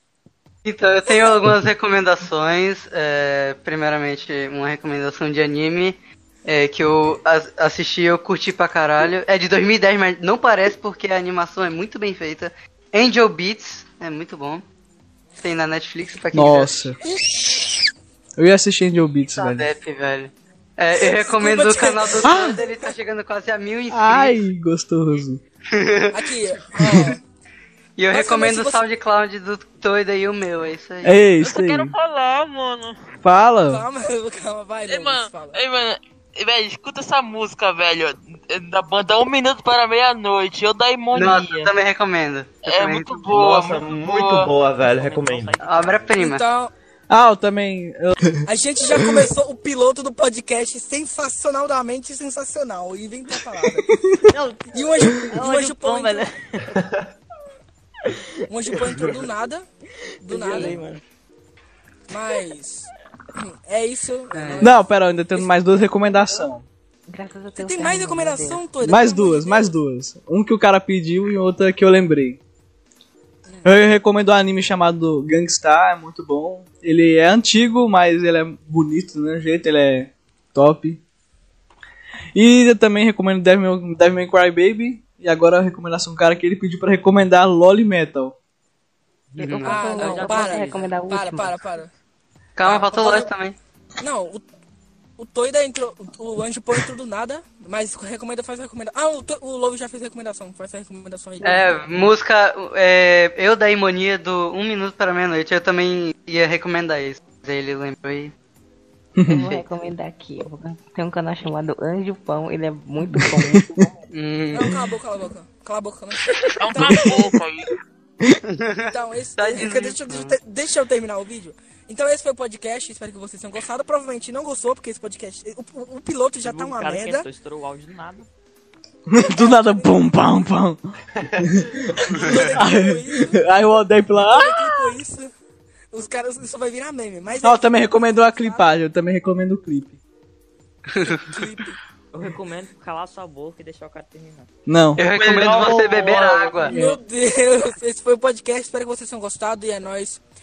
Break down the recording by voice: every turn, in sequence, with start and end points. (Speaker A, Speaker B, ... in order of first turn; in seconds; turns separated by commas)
Speaker A: 0.6-14.6, Speaker A: 15.4-16.9, Speaker B: 16.3-17.0, Speaker B: 18.4-19.7, Speaker A: 19.3-24.4, Speaker C: 21.1-22.4, Speaker B: 22.2-22.6, Speaker B: 23.9-25.4, Speaker A: 25.7-27.2, Speaker C: 26.1-27.2, Speaker B: 26.8-27.1, Speaker A: 28.0-31.2, Speaker C: 28.1-28.8, Speaker B: 31.0-31.9, Speaker D: 31.4-33.0, Speaker B: 33.2-33.9, Speaker C: 33.6-35.6, Speaker D: 34.9-41.7, Speaker A: 41.1-43.3, Speaker D: 42.6-44.5, Speaker E: 43.3-45.9, Speaker F: 44.8-46.2, Speaker A: 45.6-46.4, Speaker C: 46.2-46.7, Speaker B: 47.1-48.3, Speaker C: 48.4-53.9, Speaker B: 48.9-49.2, Speaker F: 54.3-56.8, Speaker C: 54.7-56.3, Speaker E: 56.7-57.0, Speaker C: 58.5-59.6, Speaker C: 60.2-60.8, Speaker G: 60.3-60.8, Speaker F: 60.5-61.0, Speaker C: 62.1-64.8, Speaker A: 64.3-64.7, Speaker B: 64.6-66.6, Speaker C: 65.3-65.8, Speaker G: 67.1-68.6, Speaker C: 67.5-69.7, Speaker B: 68.8-72.4, Speaker C: 73.5-73.7, Speaker B: 73.6-81.0, Speaker B: 82.3-88.3, Speaker G: 89.3-91.6, Speaker A: 89.4-90.2, Speaker C: 89.6-91.9, Speaker F: 89.9-91.0, Speaker A: 92.6-93.5, Speaker C: 92.6-93.3, Speaker C: 94.0-94.4, Speaker C: 95.2-101.8, Speaker A: 101.4-108.3, Speaker B: 109.2-109.6, Speaker G: 109.2-114.0, Speaker B: 113.0-113.8, Speaker A: 114.1-114.7, Speaker C: 114.5-117.3, Speaker D: 116.6-117.7, Speaker A: 118.5-120.4, Speaker C: 118.9-127.2, Speaker F: 126.4-128.3, Speaker B: 129.1-134.7, Speaker C: 129.2-130.0, Speaker C: 132.1-133.5, Speaker C: 134.3-135.3, Speaker C: 135.9-138.7, Speaker B: 137.4-140.0, Speaker A: 140.9-141.2, Speaker C: 141.0-141.8, Speaker F: 142.1-144.5, Speaker B: 144.7-145.0, Speaker A: 144.9-146.7, Speaker D: 145.1-146.7, Speaker B: 146.7-147.0, Speaker C: 146.7-150.2